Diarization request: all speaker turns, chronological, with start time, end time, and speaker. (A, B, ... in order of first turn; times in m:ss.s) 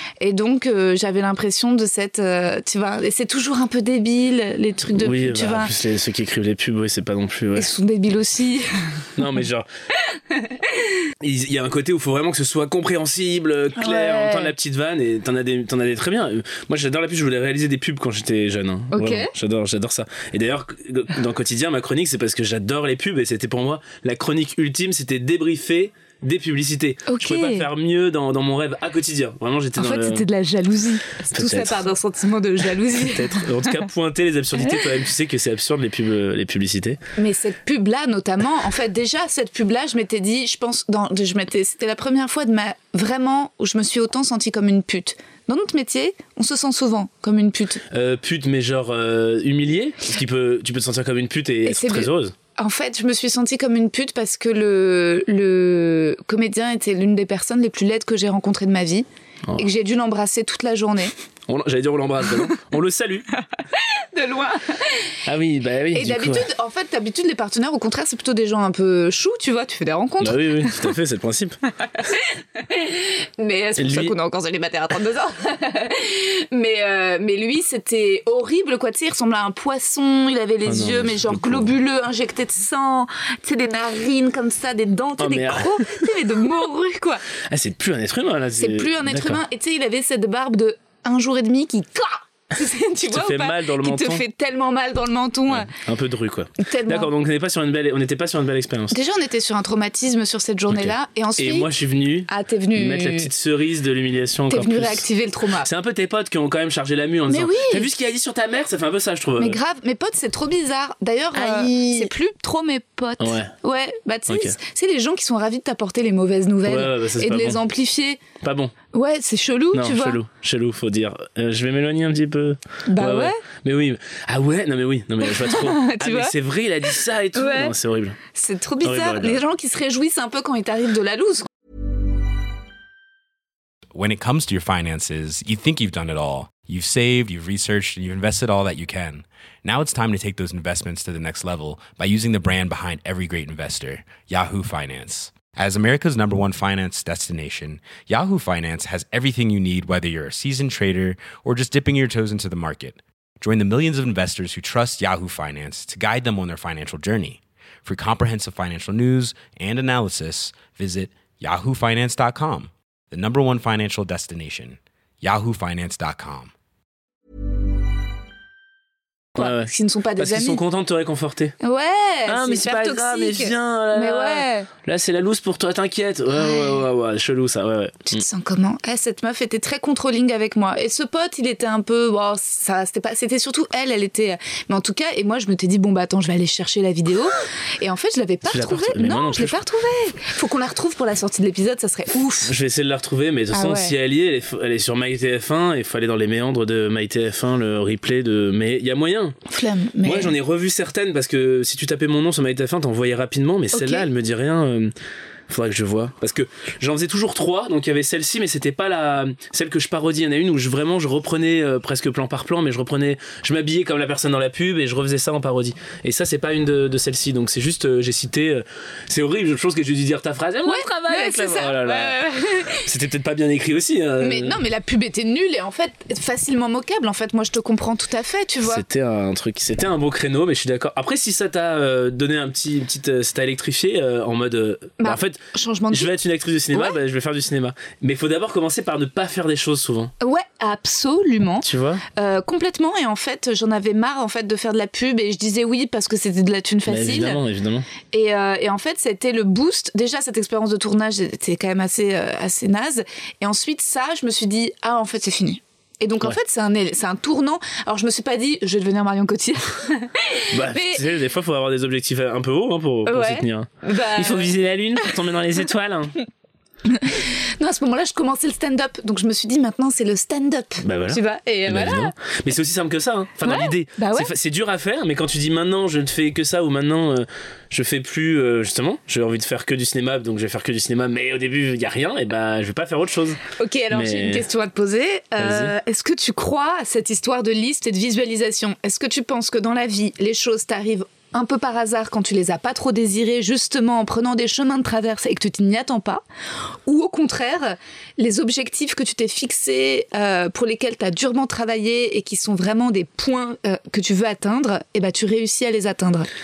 0:00.2-0:05.7 A
0:04.9-0:07.7 B
0:07.6-0:09.0 A
0:09.2-0:09.7 B
0:11.2-0:30.3 B
0:13.8-0:14.5 A
0:18.9-0:19.3 A
0:27.1-0:27.7 A
0:29.8-0:33.7 A
0:31.3-0:31.8 B
0:33.0-0:37.0 B
0:37.2-0:47.8 A
0:47.9-0:52.3 B
0:51.7-1:01.1 A
1:01.5-1:03.3 B
1:03.8-1:05.2 A
1:05.3-1:06.5 B
1:05.9-1:10.9 A
1:10.2-1:11.6 B
1:11.9-1:27.2 A
1:13.8-1:14.1 B
1:20.7-1:21.7 B
1:25.2-1:26.2 B
1:27.5-1:29.4 B
1:28.6-1:35.7 A
1:33.1-1:34.2 B
1:35.5-1:39.0 B
1:36.6-1:37.1 A
1:38.9-1:41.7 A
1:40.7-1:45.0 B
1:42.3-1:43.3 A
1:44.5-1:45.7 A
1:45.6-1:49.6 B
1:47.3-1:47.9 A
1:49.4-1:58.2 A
1:51.4-1:52.1 B
1:53.2-1:53.5 B
1:54.3-1:54.6 B
1:56.7-1:57.6 B
1:58.4-1:58.7 B
1:58.9-2:00.2 A
1:59.7-2:08.2 B
2:02.9-2:03.4 A
2:05.3-2:06.3 A
2:07.4-2:07.7 A
2:08.3-2:11.5 A
2:08.8-2:09.4 B
2:13.9-2:46.5 C
2:49.4-2:51.6 B
2:49.4-2:50.6 A
2:51.6-2:54.7 A
2:52.3-2:58.2 B
2:56.3-2:56.8 A
2:58.1-3:12.5 A
3:08.5-3:09.6 B
3:12.4-3:19.4 B
3:13.5-3:13.9 A
3:19.5-3:20.3 A
3:20.0-3:24.9 B
3:23.7-3:24.1 A
3:25.5-3:42.2 B
3:40.6-3:42.9 A
3:42.7-3:44.6 B
3:44.2-3:48.8 A
3:48.6-3:55.4 B
3:55.0-3:56.1 A
3:55.9-4:00.1 B
4:00.2-4:07.4 A
4:01.6-4:02.0 B
4:06.9-4:07.9 B
4:08.1-4:21.0 A
4:20.5-4:26.2 B
4:23.1-4:24.5 A
4:26.9-4:32.1 A
4:30.8-4:43.4 B
4:33.4-4:34.3 A
4:43.6-4:56.2 A
4:43.9-4:44.5 B
4:45.4-4:45.8 B
4:56.9-5:06.3 A